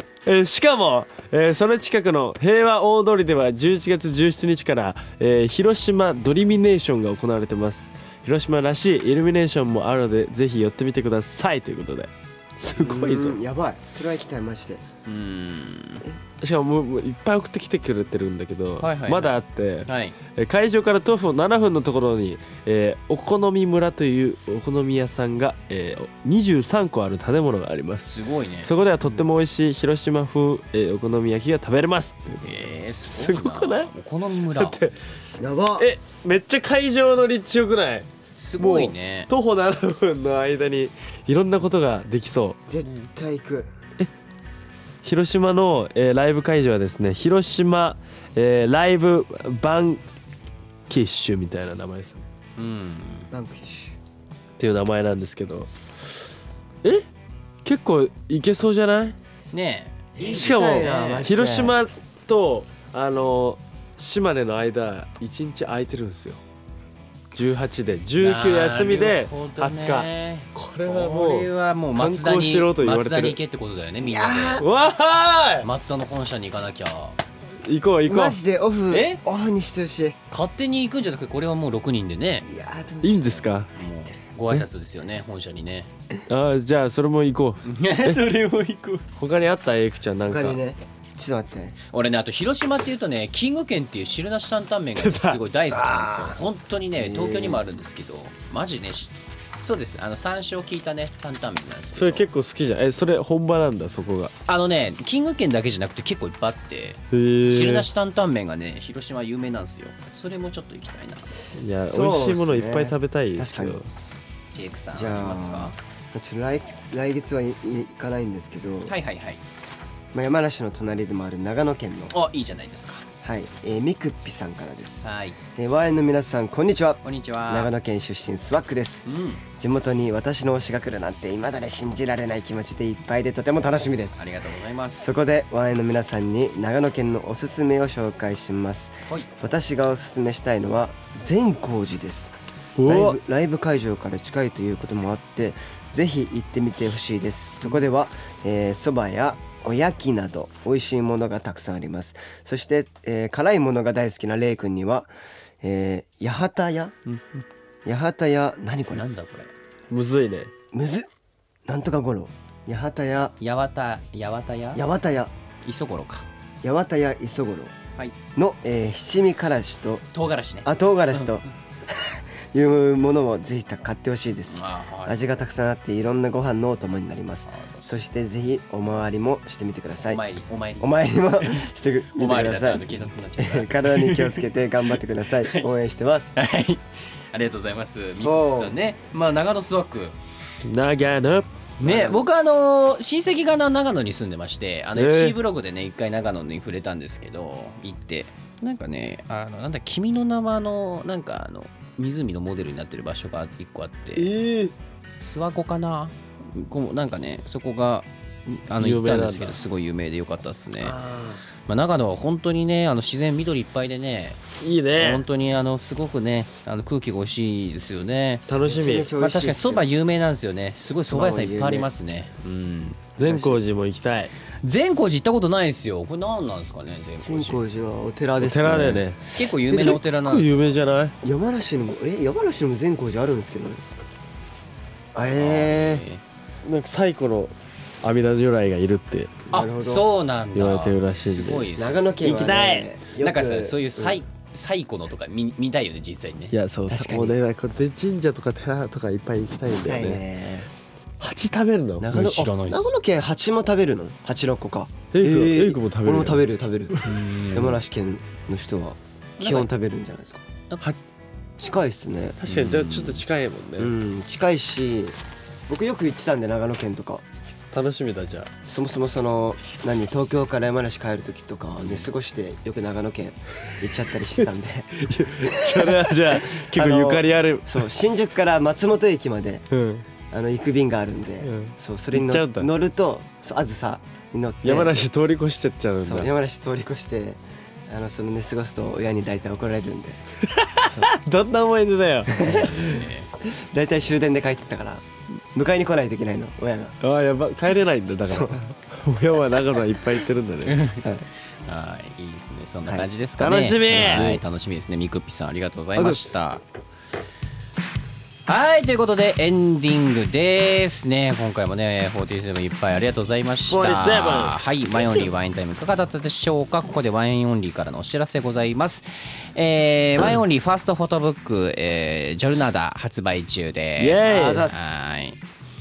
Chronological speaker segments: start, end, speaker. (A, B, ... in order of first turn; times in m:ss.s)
0:00.3-0:13.4 A
0:12.8-0:14.8 B
0:15.1-0:16.1 C
0:16.4-0:33.9 A
0:18.8-0:20.2 C
0:28.1-0:29.2 C
0:32.4-0:34.8 C
0:34.5-0:35.0 A
0:35.4-0:35.9 B
0:35.8-0:42.6 A
0:38.4-0:39.3 C
0:42.7-0:43.7 B
0:45.0-0:50.0 A
0:50.9-0:52.2 A
0:52.6-0:53.3 C
0:53.3-0:54.0 B
0:54.6-0:55.7 A
0:57.6-0:59.2 A
0:59.5-1:01.4 C
1:00.2-1:01.8 B
1:00.2-1:06.4 A
1:07.3-1:13.4 A
1:08.2-1:14.6 C
1:14.0-1:14.7 B
1:14.6-1:15.7 A
1:15.6-1:17.2 C
1:17.6-1:18.4 A
1:18.1-1:20.2 B
1:18.9-1:19.2 C
1:20.3-1:22.5 C
1:22.5-1:23.5 B
1:23.0-1:23.7 A
1:23.7-1:25.9 C
1:26.3-1:28.2 A
1:27.6-1:29.1 C
1:29.2-1:30.6 A
1:30.3-1:31.8 B
1:31.9-1:42.3 C
1:35.0-1:35.4 A
1:37.0-1:37.6 B
1:42.0-1:44.3 A
1:44.5-1:51.3 C
1:47.1-1:47.9 A
1:51.6-1:53.9 A
1:51.9-1:53.8 B
1:54.5-1:55.7 C
1:54.9-1:58.9 B
1:58.9-1:59.4 C
2:00.1-2:02.1 B
2:02.1-2:03.0 C
2:03.2-2:14.3 B
2:05.0-2:05.4 C
2:07.0-2:07.7 C
2:09.1-2:09.4 C
2:14.2-2:15.1 C
2:15.0-2:22.3 B
2:22.8-2:23.2 A
2:22.8-2:35.1 B
2:35.6-2:37.0 B
2:37.1-2:37.4 C
2:37.8-2:39.0 B
2:38.9-2:39.5 C
2:39.9-2:40.5 A
2:40.7-2:41.1 B
2:41.7-2:43.4 B
2:43.4-2:44.8 C
2:44.8-2:45.3 B
2:45.6-2:46.3 C
2:46.6-2:47.7 B
2:48.4-2:50.1 B
2:50.1-2:50.7 C
2:50.6-3:00.2 B
2:54.5-2:55.2 C
2:57.5-2:58.0 C
3:00.1-3:04.4 C
3:00.8-3:06.4 B
3:05.4-3:05.7 C
3:06.4-3:10.2 C
3:08.2-3:08.8 B
3:10.6-3:11.5 A
3:11.8-3:12.2 B
3:11.8-3:24.3 C
3:15.0-3:15.4 A
3:24.2-3:24.6 A
3:25.2-3:31.0 C
3:28.8-3:29.6 A
3:30.8-3:31.4 B
3:31.7-3:34.4 C
3:34.6-3:35.2 A
3:35.0-3:38.4 C
3:38.5-3:39.1 A
3:38.6-3:39.9 B
3:39.2-3:43.0 C
3:41.0-3:41.9 B
3:43.2-3:44.3 A
3:43.3-3:43.6 B
3:44.6-3:47.6 C
3:47.2-3:49.1 B
3:48.4-3:51.2 A
3:49.3-3:50.7 C
3:49.7-3:50.0 B
3:51.2-3:53.8 B
3:55.2-3:56.0 B
3:55.4-3:56.2 C
3:56.6-3:59.4 A
3:59.5-4:00.1 B
3:59.5-4:02.3 C
4:00.6-4:01.7 A
4:01.8-4:04.2 B
4:02.2-4:02.9 A
4:03.2-4:06.6 C
4:06.5-4:10.2 A
4:06.9-4:07.4 B
4:09.8-4:10.7 B
4:11.2-4:12.2 A
4:12.0-4:20.4 B
4:12.1-4:12.9 C
4:15.1-4:17.4 A
4:17.1-4:17.7 C
4:19.4-4:19.7 C
4:21.6-4:22.4 B
4:22.4-4:24.0 A
4:22.5-4:23.2 C
4:23.8-4:25.2 B
4:25.7-4:27.2 B
4:27.7-4:28.5 A
4:28.7-4:39.7 B
4:31.8-4:32.1 C
4:35.0-4:37.9 A
4:39.7-4:40.0 A
4:40.3-4:45.0 B
4:41.4-4:42.7 A
4:44.6-4:46.3 A
4:46.0-4:50.2 B
4:50.4-4:53.1 A
4:52.3-4:53.0 B
4:52.5-4:53.3 C
4:53.5-4:57.0 B
4:57.0-5:00.8 A
4:58.3-4:58.6 B
5:00.7-5:01.0 C
5:01.6-5:06.6 C
5:03.4-5:04.4 A
5:03.9-5:04.4 B
5:06.0-5:06.4 B
5:08.5-5:25.4 C
5:13.7-5:15.2 A
5:24.0-5:24.7 A
5:24.2-5:25.1 B